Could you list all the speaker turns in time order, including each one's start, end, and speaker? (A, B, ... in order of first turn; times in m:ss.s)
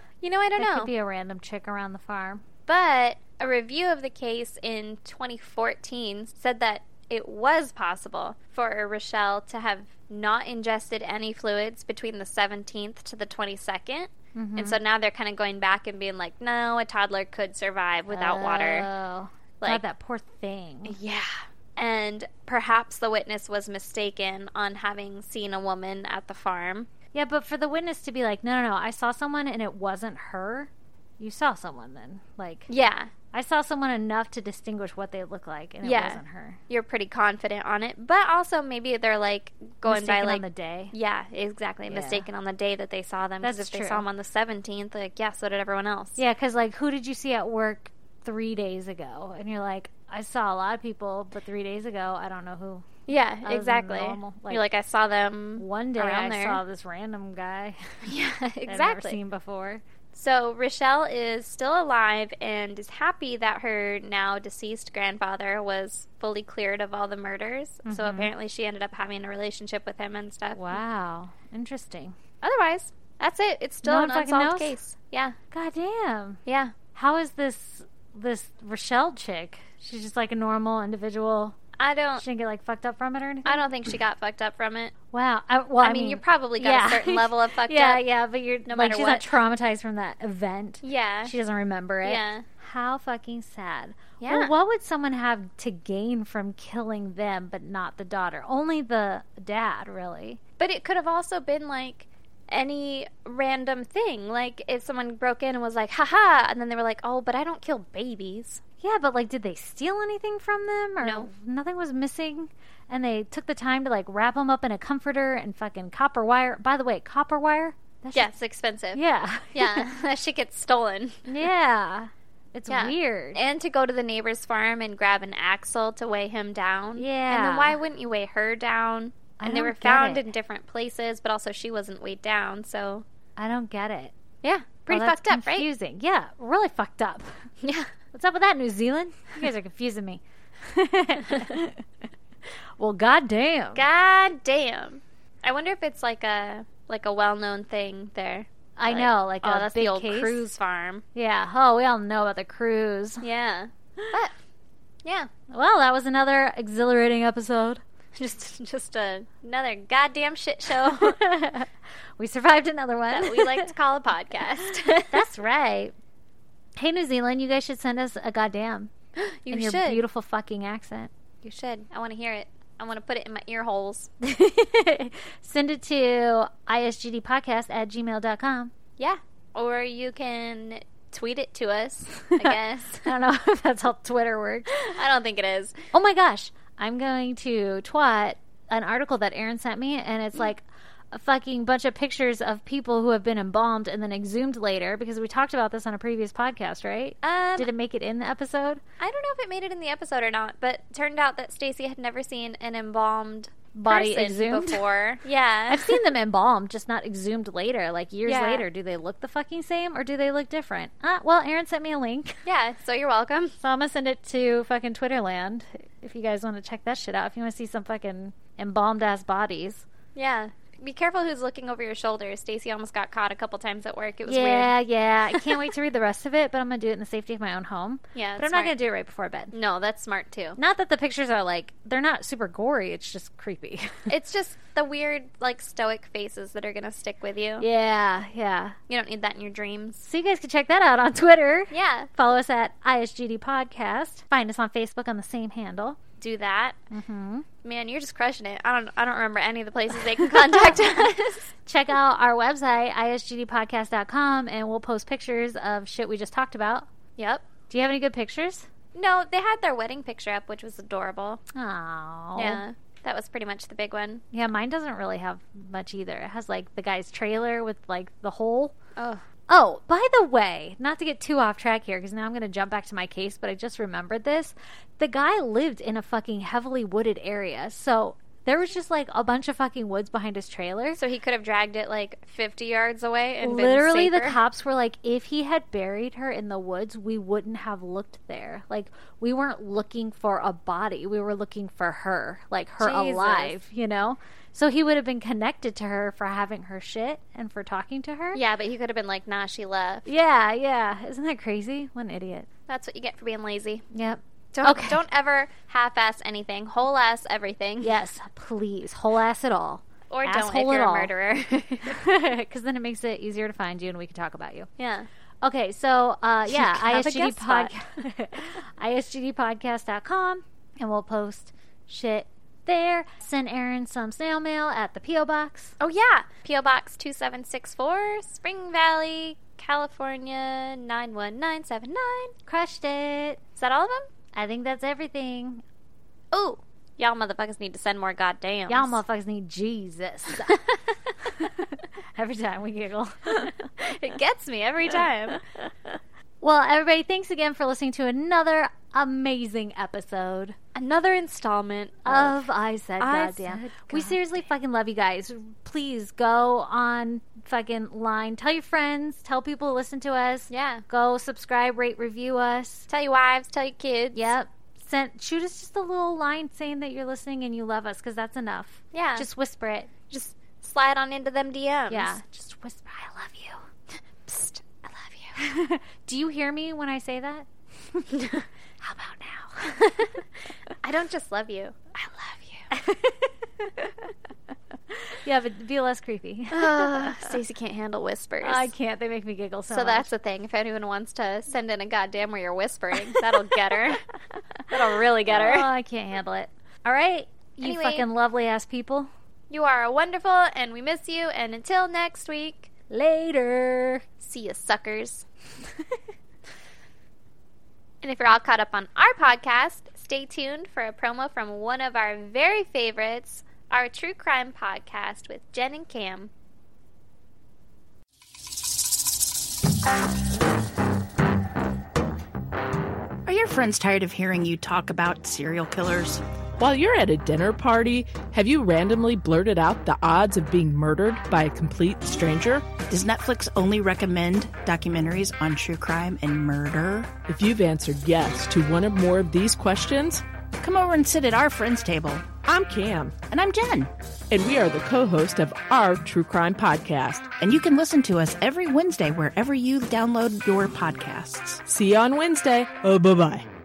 0:00.2-0:00.9 A
0:00.6-0:02.4 B
0:02.7-0:18.9 A
0:14.4-0:14.8 B
0:18.1-0:21.0 B
0:20.9-0:26.9 A
0:27.1-0:32.7 B
0:32.7-0:33.1 A
0:33.3-0:36.6 B
0:35.8-0:46.2 A
0:39.8-0:40.9 B
0:41.9-0:42.3 B
0:43.4-0:44.0 B
0:46.2-0:54.6 B
0:53.1-0:56.6 A
0:55.6-0:58.1 B
0:58.1-0:59.2 A
0:58.7-0:59.8 B
1:00.1-1:10.8 A
1:07.8-1:08.3 B
1:10.5-1:12.1 B
1:12.4-1:15.4 A
1:13.8-1:14.7 B
1:15.5-1:16.4 B
1:16.4-1:16.7 A
1:16.9-1:21.6 B
1:21.8-1:22.2 A
1:22.2-1:23.7 B
1:23.4-1:24.9 A
1:25.1-1:40.4 B
1:25.8-1:28.0 A
1:28.7-1:29.3 A
1:30.8-1:31.4 A
1:32.0-1:32.4 A
1:34.2-1:34.5 A
1:40.6-1:48.6 A
1:48.8-1:58.3 B
1:51.0-1:51.3 A
1:58.1-1:59.0 A
1:58.9-1:59.9 B
1:59.5-2:01.5 A
2:01.3-2:03.4 B
2:02.7-2:13.0 A
2:07.0-2:07.8 B
2:09.4-2:10.3 B
2:13.4-2:14.1 B
2:14.4-2:15.7 A
2:14.9-2:17.5 B
2:17.6-2:17.9 A
2:18.1-2:21.8 B
2:22.8-2:23.8 B
2:23.7-2:31.0 A
2:28.8-2:30.6 B
2:31.1-2:33.2 B
2:33.2-2:34.4 A
2:35.0-2:35.3 A
2:35.5-2:37.8 B
2:38.2-2:41.2 A
2:41.0-2:43.7 B
2:43.1-2:45.2 A
2:45.1-2:45.9 B
2:46.8-2:48.9 B
2:49.2-2:50.0 A
2:49.5-2:51.1 B
2:51.4-2:54.1 A
2:54.2-2:58.7 B
2:59.0-3:03.1 A
3:03.0-3:04.8 B
3:04.7-3:05.8 A
3:05.9-3:18.8 B
3:17.2-3:17.7 A
3:19.0-3:26.0 A
3:23.7-3:24.8 B
3:25.7-3:32.4 B
3:28.3-3:28.6 A
3:32.4-3:33.6 A
3:33.6-3:39.9 B
3:40.1-3:44.7 A
3:44.3-3:49.5 B
3:45.3-3:45.7 A
3:48.1-3:48.7 A
3:49.5-3:50.6 A
3:50.6-3:54.1 B
3:54.1-3:57.7 A
3:57.6-3:58.8 B
3:58.9-4:00.1 A
4:00.0-4:06.0 B
4:01.7-4:02.1 A
4:06.2-4:06.8 A
4:06.9-4:07.5 B
4:07.6-4:11.5 A
4:11.7-4:16.9 B
4:17.2-4:17.4 A
4:17.7-4:18.7 B
4:18.9-4:21.4 A
4:21.6-4:22.6 B
4:22.4-4:24.2 A
4:24.3-4:28.7 B
4:29.0-4:29.2 A
4:29.5-4:41.0 B
4:41.0-4:44.4 A
4:43.4-4:58.4 B
4:52.8-4:53.6 A
4:58.3-5:00.1 A
5:00.1-5:02.5 B
5:02.7-5:03.9 A
5:03.9-5:05.0 B
5:04.5-5:07.9 A
5:07.8-5:11.1 B
5:10.1-5:12.0 A
5:11.9-5:14.7 B
5:14.8-5:15.1 A
5:15.4-5:25.8 B
5:16.5-5:17.7 A
5:25.8-5:32.3 A
5:32.4-5:33.4 B
5:33.6-5:34.1 A
5:34.3-5:35.6 B
5:36.3-5:39.0 A
5:38.7-5:40.6 B
5:41.4-5:43.6 B
5:43.8-5:45.4 A
5:46.4-5:50.6 B
5:50.7-5:52.4 A
5:52.0-6:02.9 B
5:53.0-5:54.2 A
6:00.5-6:00.8 A
6:02.9-6:04.3 A
6:04.1-6:09.9 B
6:08.9-6:09.3 A
6:10.1-6:12.2 A
6:11.9-6:13.6 B
6:14.2-6:15.4 A
6:15.4-6:19.8 B
6:19.6-6:20.1 A
6:20.8-6:22.7 A
6:22.7-6:24.1 B
6:24.9-6:27.2 B
6:26.5-6:28.7 A
6:28.4-6:30.1 B
6:29.7-6:34.0 A
6:34.7-6:35.7 A
6:35.3-6:39.1 B
6:37.6-6:38.1 A
6:39.5-6:42.7 A
6:42.9-6:44.0 B
6:44.2-6:45.3 A
6:48.0-6:56.3 A
7:03.2-7:06.2 C
7:06.6-7:12.7 D
7:12.8-7:17.2 C
7:17.3-7:20.2 D
7:20.6-7:22.4 C
7:22.4-7:23.2 D
7:23.3-7:23.9 C
7:24.3-7:27.3 D
7:27.4-7:31.6 C
7:31.7-7:33.4 D